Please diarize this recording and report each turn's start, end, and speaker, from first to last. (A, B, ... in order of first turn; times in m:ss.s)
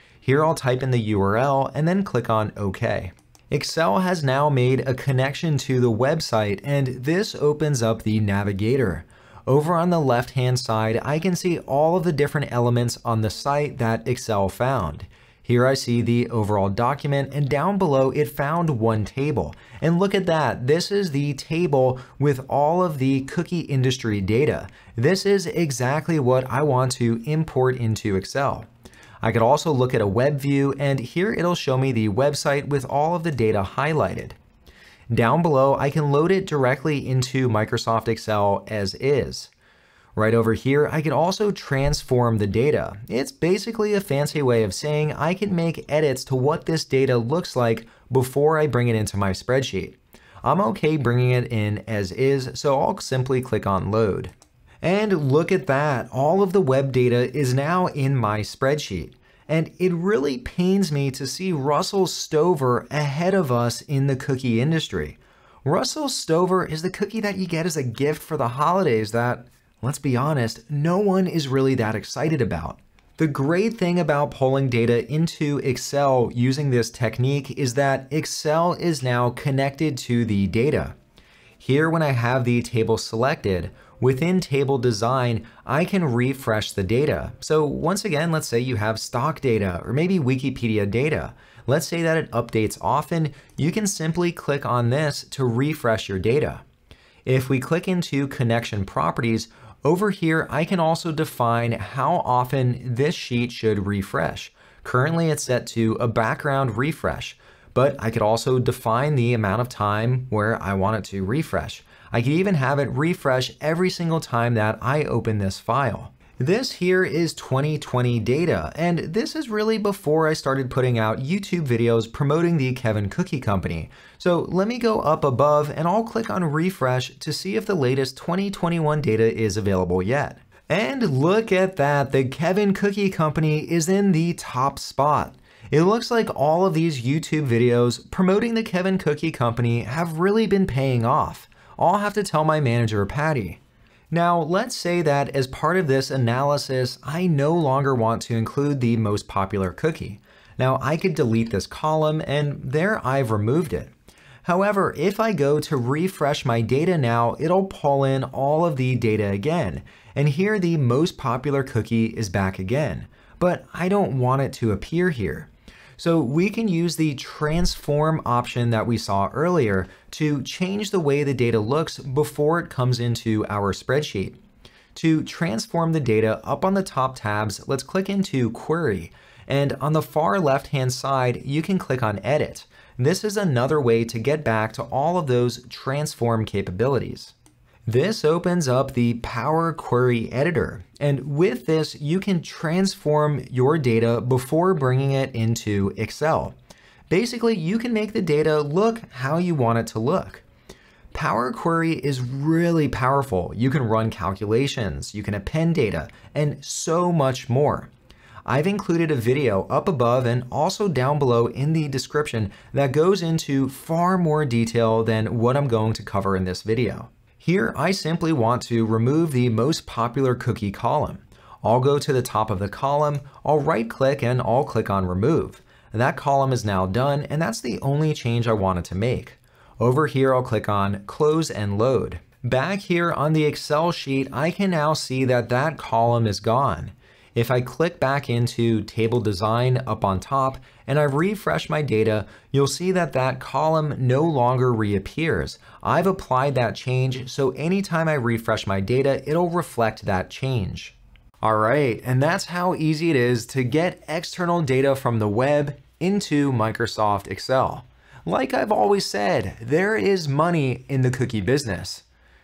0:00.2-0:28.7 A
0:29.2-0:34.4 A
0:35.1-0:39.5 A
0:40.2-1:21.0 A
1:21.6-1:36.6 A
1:37.2-2:23.6 A
2:24.1-2:33.9 A
2:34.4-2:54.4 A
2:54.9-3:07.3 A
3:07.9-3:16.6 A
3:17.1-3:20.4 A
3:21.1-3:27.9 A
3:28.4-4:22.0 A